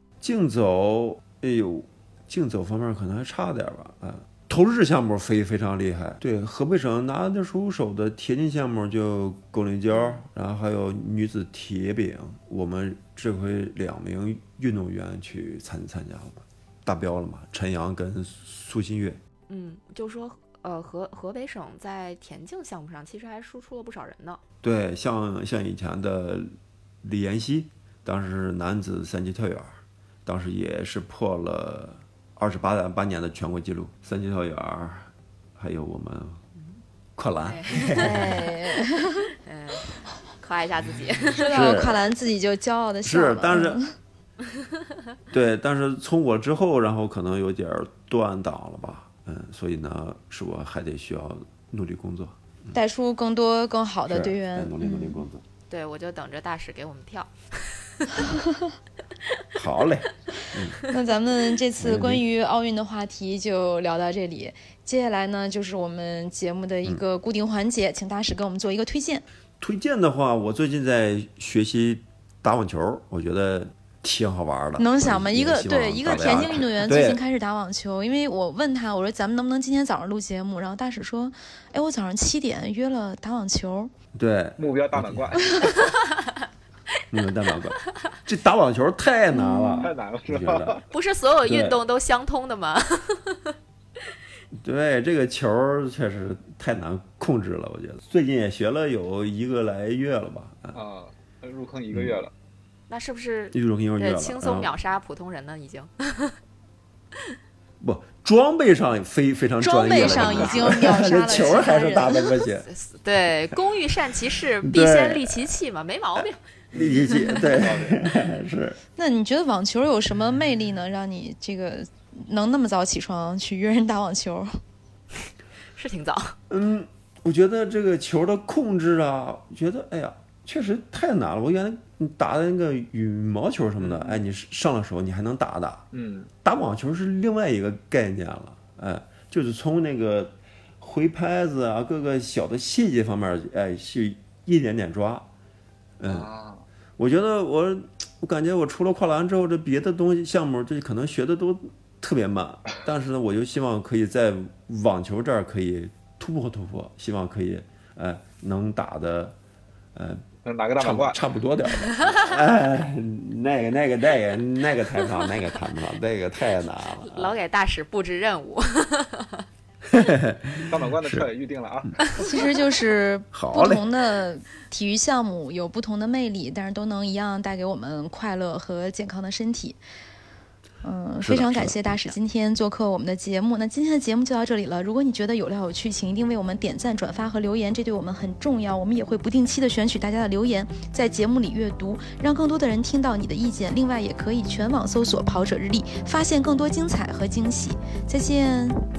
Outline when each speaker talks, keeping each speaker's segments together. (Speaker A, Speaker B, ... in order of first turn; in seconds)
Speaker A: 0.2-19.2, 24.6-26.5, 27.0-36.4, 37.2-38.5, 41.4-42.0, 43.0-43.8, 45.3-52.8, 54.1-55.4, 59.5-60.8, 61.8-62.2, 69.6-77.2, 84.1-85.3, 87.1-90.8, 91.4-91.8, 94.6-100.8, 101.9-102.2, 103.5-104.7, 107.8-112.7, 114.6-115.5, 116.2-118.8, 126.5-135.8, 136.4-145.3, 146.0-146.3, 147.0-159.4, 159.9-160.2, 160.8-167.4, 169.9-171.3, 173.3-173.9, 181.2-182.2
Speaker B: 9.9-10.2, 19.5-24.4, 37.4-38.5, 39.4-41.6, 55.7-58.2, 90.9-93.5, 102.9-106.4, 109.9-117.4, 125.7-126.4, 167.0-169.4
Speaker C: 37.9-39.3, 41.4-43.9, 52.7-55.3, 58.2-58.7, 60.8-69.2, 74.8-83.9, 89.3-89.9, 109.6-112.2, 119.0-124.5, 172.2-179.8, 180.8-198.8
Speaker D: 84.6-86.0, 89.8-90.9, 100.7-102.3, 116.7-118.0, 133.8-134.2, 135.9-136.3, 146.0-146.7, 160.4-161.2, 170.6-172.4